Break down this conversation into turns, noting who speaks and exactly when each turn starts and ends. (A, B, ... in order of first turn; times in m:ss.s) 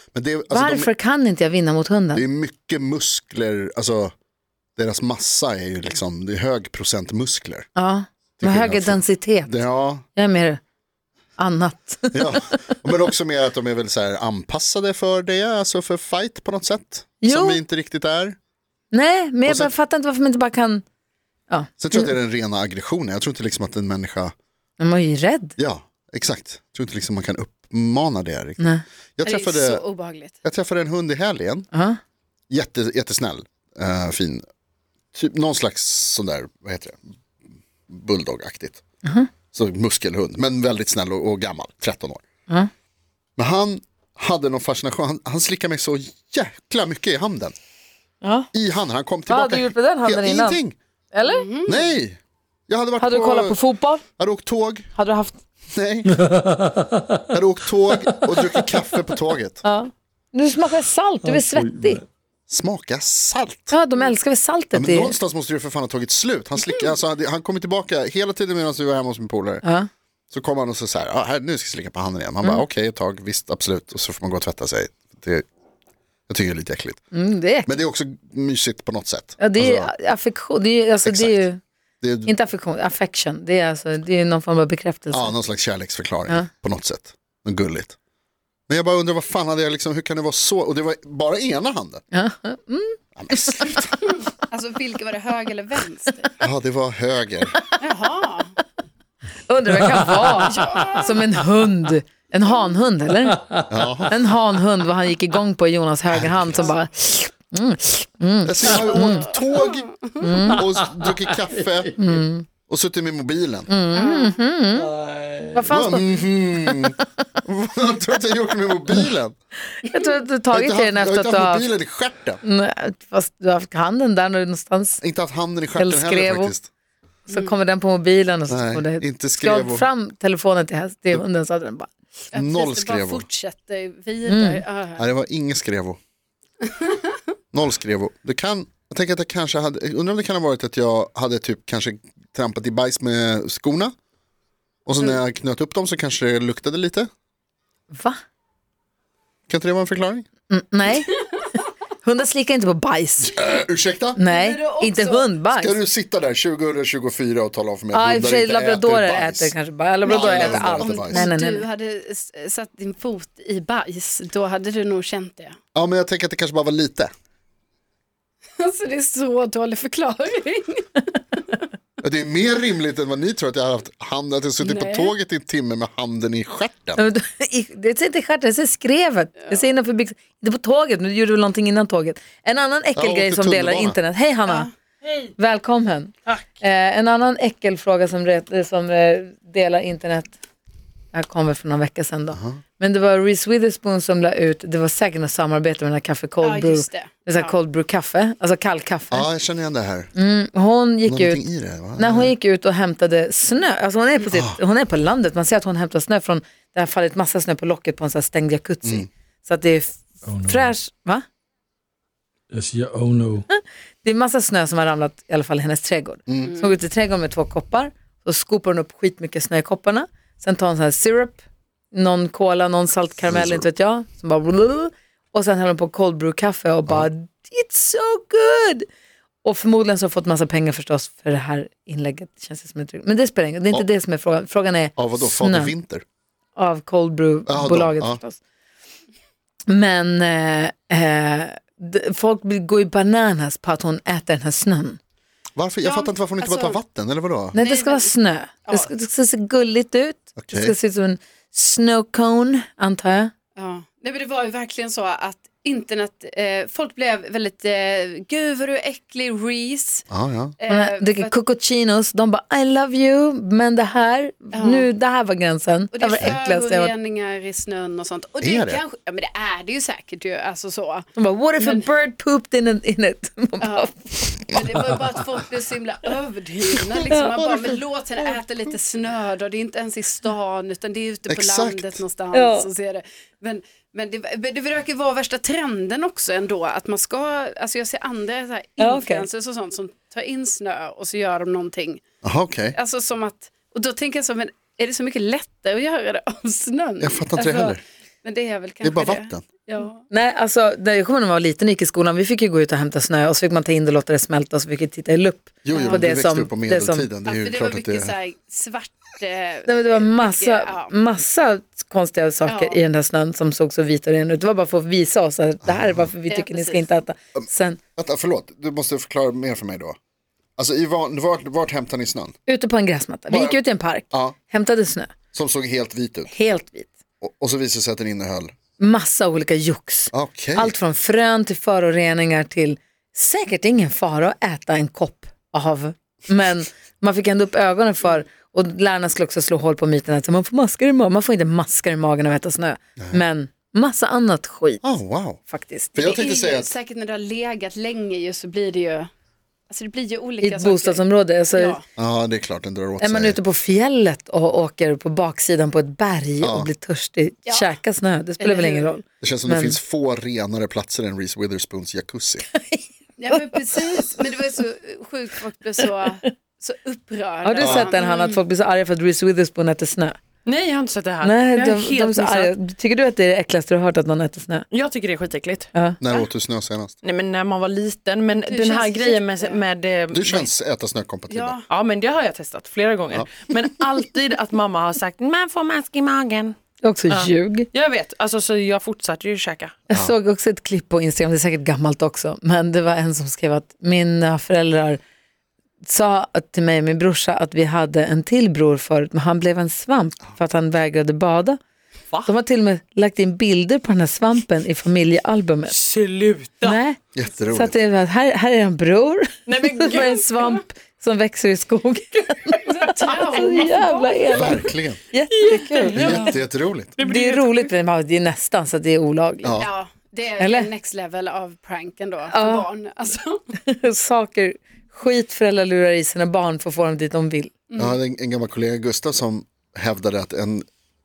0:00.1-0:00.9 A
0:00.5-0:02.2 B
0:02.1-0:04.1 A
0:04.8-0:07.7 A
0:07.8-0:09.5 B
0:08.4-0:10.0 A
0:10.2-0:10.6 B
0:11.4-0:12.6 B
0:12.1-0:18.4 A
0:17.2-0:17.6 B
0:18.9-0:20.8 B
0:19.4-0:19.7 A
0:21.5-0:22.1 B
0:21.8-0:24.3 A
0:24.8-0:25.6 B
0:25.6-0:28.6 A
0:28.6-0:28.8 B
0:29.2-0:29.8 A
0:29.2-0:30.4 C
0:30.4-0:31.7 A
0:31.7-0:32.0 B
0:32.5-0:34.4 A
0:35.1-0:37.0 A
0:37.9-0:38.8 A
0:39.0-0:39.3 B
0:39.5-0:42.2 A
0:43.4-0:47.6 A
0:48.2-0:48.5 B
0:48.5-0:50.8 A
0:49.3-0:50.6 B
0:51.1-0:51.4 B
0:51.2-0:51.8 C
0:51.7-0:53.6 A
0:53.0-0:54.0 B
0:54.2-0:54.9 A
0:55.0-0:55.4 B
0:55.7-0:56.2 A
0:56.3-0:57.2 D
0:57.3-0:59.6 A
0:59.6-1:02.0 B
1:01.2-1:02.0 D
1:02.5-1:03.7 A
1:03.7-1:05.2 B
1:04.7-1:09.6 A
1:09.6-1:09.9 B
1:10.3-1:15.4 A
1:16.3-1:17.0 A
1:17.1-1:17.7 B
1:17.6-1:19.9 A
1:19.4-1:21.6 B
1:21.1-1:21.5 A
1:22.0-1:22.3 A
1:22.3-1:25.4 B
1:25.1-1:28.0 A
1:28.7-1:32.0 A
1:32.1-1:33.4 B
1:33.2-1:34.0 A
1:34.5-1:36.3 C
1:36.4-1:37.6 A
1:37.8-1:38.5 C
1:39.5-1:43.4 B
1:40.4-1:41.2 C
1:43.7-1:44.2 A
1:44.0-1:49.3 B
1:46.1-1:46.7 A
1:48.4-1:52.0 A
1:49.0-1:50.3 C
1:50.2-1:50.6 B
1:52.0-1:52.5 B
1:52.7-1:53.7 A
1:53.7-1:54.9 B
1:53.9-1:54.4 C
1:54.8-1:55.7 D
1:55.5-1:56.1 B
1:55.7-1:59.4 A
1:56.6-1:56.9 B
1:59.7-2:01.7 B
2:00.5-2:02.4 A
2:02.4-2:05.0 B
2:05.0-2:06.7 A
2:05.8-2:06.5 B
2:07.3-2:11.9 B
2:08.5-2:09.9 A
2:12.3-2:15.0 C
2:12.3-2:13.3 A
2:14.3-2:14.6 B
2:15.0-2:16.0 A
2:17.5-2:23.9 A
2:24.9-2:27.1 A
2:27.9-2:28.2 B
2:29.5-2:30.3 A
2:30.5-2:31.2 B
2:32.0-2:33.4 B
2:33.2-2:34.2 A
2:34.2-2:35.8 B
2:34.2-2:35.3 C
2:35.5-2:41.3 A
2:37.9-2:41.6 B
2:40.1-2:45.6 C
2:45.8-2:47.1 A
2:48.6-2:51.4 C
2:52.0-2:57.0 A
2:54.6-2:55.1 C
2:57.0-3:04.7 B
3:03.0-3:04.0 A
3:05.4-3:10.4 B
3:11.1-3:19.3 B
3:12.3-3:12.6 A
3:16.4-3:17.5 C
3:19.1-3:20.1 A
3:20.2-3:21.4 B
3:21.0-3:22.3 A
3:22.0-3:31.2 B
3:24.3-3:24.6 A
3:30.2-3:30.7 D
3:32.5-3:33.4 D
3:33.5-3:41.4 B
3:36.3-3:36.6 A
3:41.9-3:48.9 B
3:43.2-3:43.7 A
3:49.4-3:55.7 B
3:55.0-3:56.0 A
3:56.6-3:58.4 B
3:57.5-3:58.2 A
3:59.7-4:05.0 B
4:05.6-4:07.6 A
4:05.8-4:06.8 C
4:07.5-4:13.3 B
4:07.6-4:08.1 C
4:08.6-4:08.9 C
4:10.4-4:10.8 A
4:13.6-4:20.0 C
4:20.1-4:20.6 A
4:20.6-4:21.3 C
4:20.7-4:26.9 B
4:24.5-4:24.9 C
4:25.9-4:31.1 C
4:28.4-4:28.8 A
4:31.2-4:34.3 B
4:31.6-4:31.9 C
4:33.6-4:52.0 C
4:37.2-4:38.4 A
4:41.3-4:42.0 A
4:42.3-4:42.7 B
4:48.8-4:49.3 B
4:52.2-4:52.8 A
4:52.8-5:00.0 C
4:57.0-4:57.8 A
4:58.8-4:59.4 A
5:00.1-5:07.1 B
5:05.6-5:08.2 A
5:05.7-5:06.1 C
5:07.3-5:10.9 C
5:09.7-5:17.8 B
5:12.5-5:12.8 C
5:15.6-5:16.1 A
5:16.3-5:16.9 C
5:18.0-5:20.0 A
5:20.6-5:22.4 A
5:22.5-5:25.1 B
5:23.3-5:24.4 A
5:25.3-5:26.3 A
5:26.3-5:26.9 B
5:27.2-5:28.5 A
5:28.8-5:44.8 B
5:30.1-5:30.8 A
5:44.8-5:45.4 A
5:45.5-5:46.0 B
5:45.9-5:46.7 A
5:46.0-5:49.1 C
5:49.7-5:51.8 C
5:50.4-5:51.8 B
5:52.0-5:53.4 A
5:53.0-5:59.8 B
5:56.4-5:56.7 A
5:57.5-5:57.7 C
5:58.4-5:58.9 C
5:59.2-6:02.5 A
6:02.5-6:04.2 B
6:03.2-6:08.4 C
6:07.4-6:10.2 B
6:07.6-6:07.9 A
6:10.4-6:12.5 E
6:11.2-6:14.6 B
6:14.7-6:15.7 E
6:16.0-6:17.0 A
6:17.0-6:20.5 E
6:18.5-6:19.6 C
6:20.1-6:21.6 A
6:21.3-6:21.7 C
6:21.7-6:26.6 E
6:26.8-6:27.7 B
6:27.1-6:29.8 E
6:29.9-6:35.0 B
6:35.8-6:41.6 B
6:42.2-6:45.7 B
6:45.7-6:46.8 E
6:46.6-6:56.3 B
6:47.1-6:47.8 A
6:49.5-6:50.2 E
6:52.6-6:54.6 C
6:53.0-6:53.6 E
6:54.3-6:55.0 A
6:55.4-6:56.4 E
6:55.9-6:56.9 A
6:57.0-6:57.7 E
6:57.0-6:59.6 B
6:59.4-6:59.7 A
6:59.6-7:03.4 C
7:00.4-7:00.7 B
7:02.3-7:02.7 B
7:03.7-7:07.5 B
7:07.7-7:08.0 C
7:07.8-7:10.7 A